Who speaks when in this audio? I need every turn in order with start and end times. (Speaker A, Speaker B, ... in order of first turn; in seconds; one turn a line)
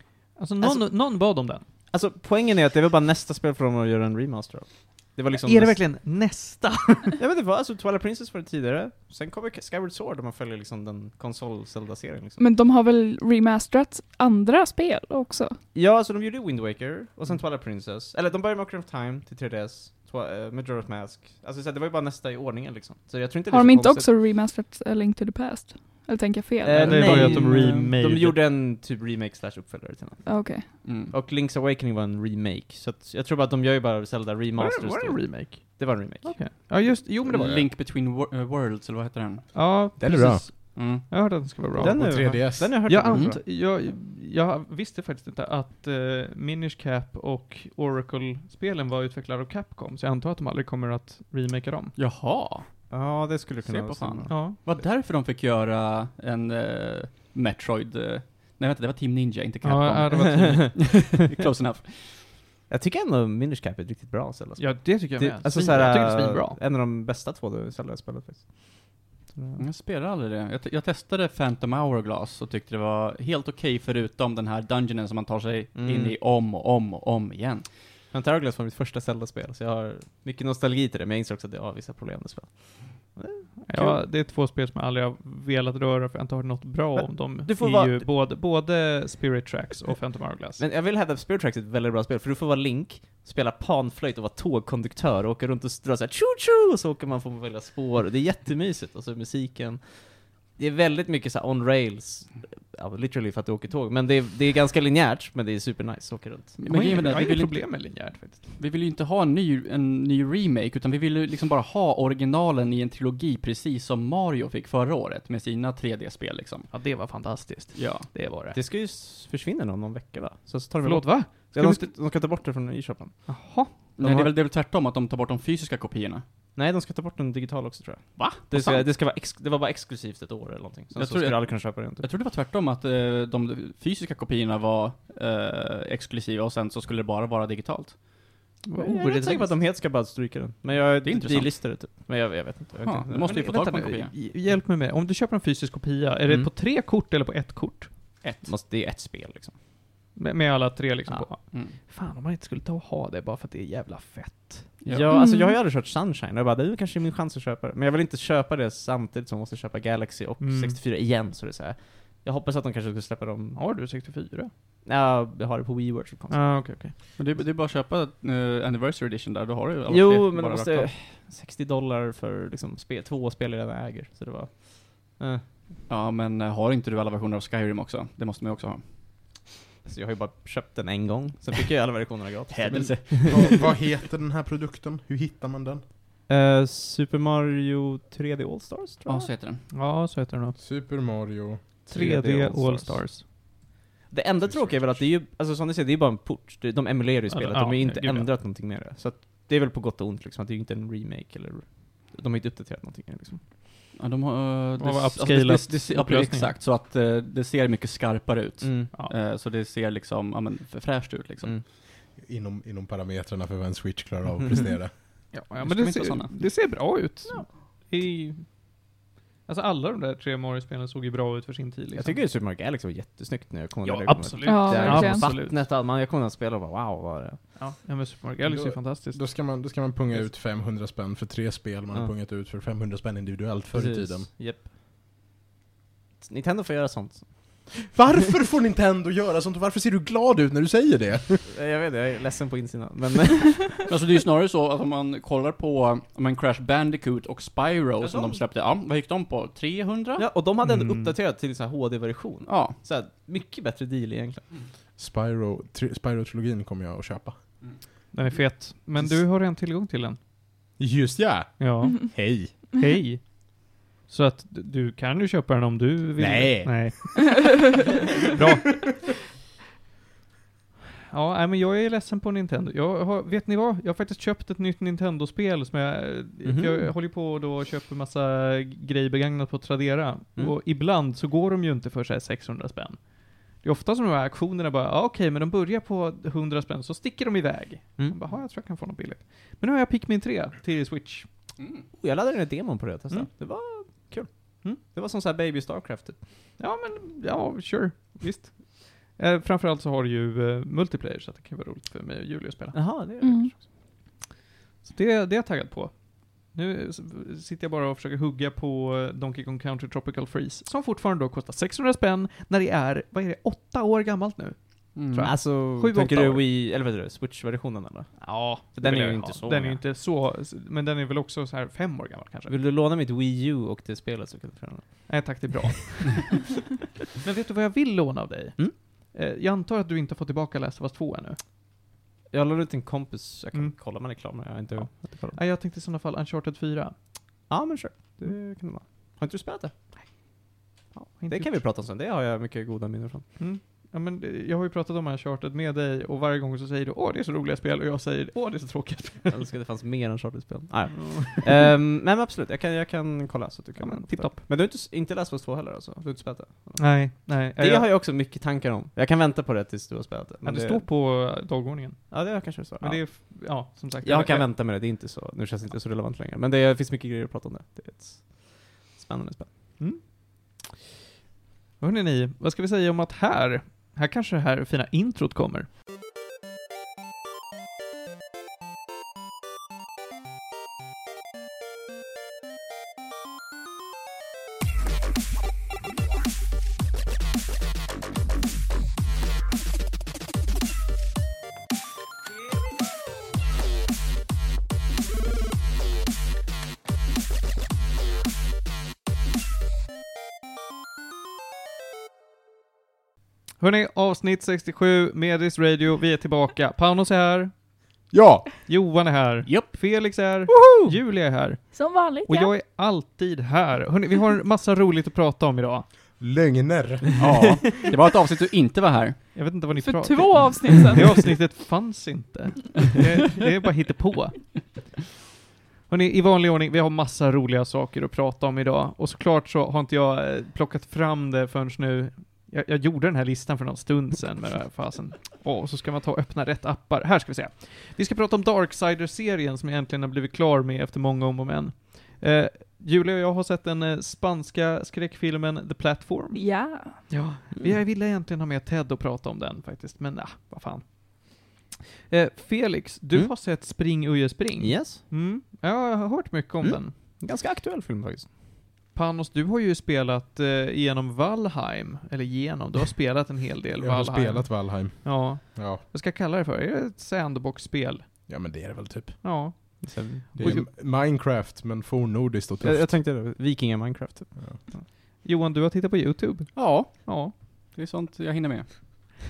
Speaker A: 0.4-1.6
Speaker B: 0.6-5.9
Speaker A: 5.4-7.2
Speaker B: 7.2-12.4
Speaker C: 12.4-15.6
Speaker B: 15.7-24.1
Speaker C: 23.5-27.7
Speaker B: 26.6-36.5
Speaker A: 26.8-28.4
Speaker C: 30.2-30.8
Speaker D: 30.8-31.1
Speaker A: 34.5-37.7
Speaker D: 37.2-39.5
Speaker A: 39.5-52.0
Speaker E: 40.0-40.5
Speaker D: 40.8-41.5
Speaker B: 41.8-43.4
Speaker E: 41.8-42.9
Speaker D: 43.0-43.4
Speaker D: 52.0-52.9
Speaker B: 52.9-54.8
Speaker D: 53.6-62.3
Speaker A: 54.3-54.6
Speaker A: 59.6-60.8
Speaker B: 60.1-61.1
Speaker B: 62.7-69.6
Speaker A: 64.6-66.6
Speaker D: 69.6-77.7
Speaker B: 75.8-76.2
Speaker B: 78.1-84.0
Speaker A: 83.7-90.6
Speaker B: 87.0-88.0
Speaker B: 90.6-106.6
Speaker D: 106.6-108.0
Speaker A: 106.7-108.5
Speaker D: 108.6-116.8
Speaker A: 116.7-118.6
Speaker D: 117.8-118.1
Speaker B: 118.5-123.2
Speaker A: 120.8-121.9
Speaker A: 123.3-124.3
Speaker D: 124.0-126.2
Speaker B: 126.5-132.1
Speaker D: 128.2-128.9
Speaker D: 131.0-139.4
Speaker B: 138.7-143.6
Speaker D: 141.0-141.6
Speaker D: 142.8-144.1
Speaker A: 143.3-148.0
Speaker D: 148.2-148.5
Speaker B: 148.4-149.6
Speaker A: 150.2-154.9
Speaker D: 151.5-151.8
Speaker B: 154.9-163.6
Speaker C: 155.1-155.6
Speaker A: 160.4-160.8
Speaker A: 163.6-164.5
Speaker B: 164.8-166.5
Speaker A: 166.3-166.9
Speaker D: 167.2-170.9
Speaker B: 169.9-175.5
Speaker D: 175.9-178.9
Speaker B: 179.8-183.7
Speaker D: 182.5-183.6
Speaker E: 182.7-185.8
Speaker B: 186.3-189.3
Speaker D: 189.1-189.6
Speaker A: 189.7-190.6
Speaker E: 190.6-191.7
Speaker B: 191.9-193.3
Speaker A: 191.9-193.3
Speaker B: 194.1-203.4
Speaker E: 194.4-195.1
Speaker A: 197.3-198.3
Speaker D: 204.0-211.5
Speaker A: 204.8-206.6
Speaker B: 208.6-208.9
Speaker E: 212.1-214.9
Speaker B: 214.4-214.7
Speaker A: 215.3-218.8
Speaker D: 215.6-216.4
Speaker A: 219.5-222.2
Speaker B: 222.0-227.4
Speaker A: 223.8-225.6
Speaker C: 224.4-225.4
Speaker A: 227.6-229.3
Speaker E: 228.4-234.3
Speaker B: 233.7-234.7
Speaker B: 236.2-237.9
Speaker E: 237.9-241.4
Speaker B: 241.5-243.9
Speaker D: 243.9-250.3
Speaker B: 248.0-248.4
Speaker B: 250.2-254.5
Speaker A: 250.6-251.2
Speaker D: 252.5-252.8
Speaker E: 255.0-258.0
Speaker A: 258.1-260.2
Speaker E: 260.8-262.5
Speaker A: 261.6-269.1
Speaker E: 266.2-267.1
Speaker A: 271.1-291.3
Speaker B: 276.4-276.9
Speaker D: 291.6-291.9
Speaker B: 291.9-296.2
Speaker A: 296.6-303.0
Speaker B: 302.7-303.6
Speaker C: 303.2-303.5
Speaker A: 304.8-316.4
Speaker D: 314.9-315.4
Speaker B: 315.2-319.8
Speaker A: 318.2-322.5
Speaker B: 322.5-325.5
Speaker A: 325.1-326.4
Speaker A: 327.2-331.4
Speaker B: 332.3-335.4
Speaker A: 333.5-337.4
Speaker B: 337.5-340.3
Speaker A: 340.7-341.6
Speaker B: 341.3-343.3
Speaker A: 343.4-349.4
Speaker B: 349.3-360.9
Speaker A: 351.0-351.7
Speaker A: 353.8-354.4
Speaker A: 356.8-357.9
Speaker A: 360.4-364.6
Speaker B: 362.1-363.1
Speaker B: 364.0-369.5
Speaker A: 369.8-370.7
Speaker A: 371.8-375.7
Speaker A: 403.6-407.5
Speaker E: 408.1-408.5
Speaker A: 408.7-416.0
Speaker D: 409.4-409.7
Speaker C: 411.7-412.5
Speaker E: 416.2-417.5
Speaker D: 417.2-419.2
Speaker A: 419.4-424.9
Speaker C: 419.7-421.2
Speaker A: 425.9-446.4
Speaker C: 446.3-447.1
Speaker A: 447.1-456.9
Speaker B: 454.6-455.1
Speaker B: 456.6-458.3
Speaker A: 458.9-468.1
Speaker E: 463.8-465.8
Speaker E: 468.3-469.8
Speaker A: 469.2-470.6
Speaker B: 469.8-470.5
Speaker E: 470.4-472.9
Speaker B: 472.6-474.4
Speaker A: 474.7-477.3
Speaker D: 476.6-479.0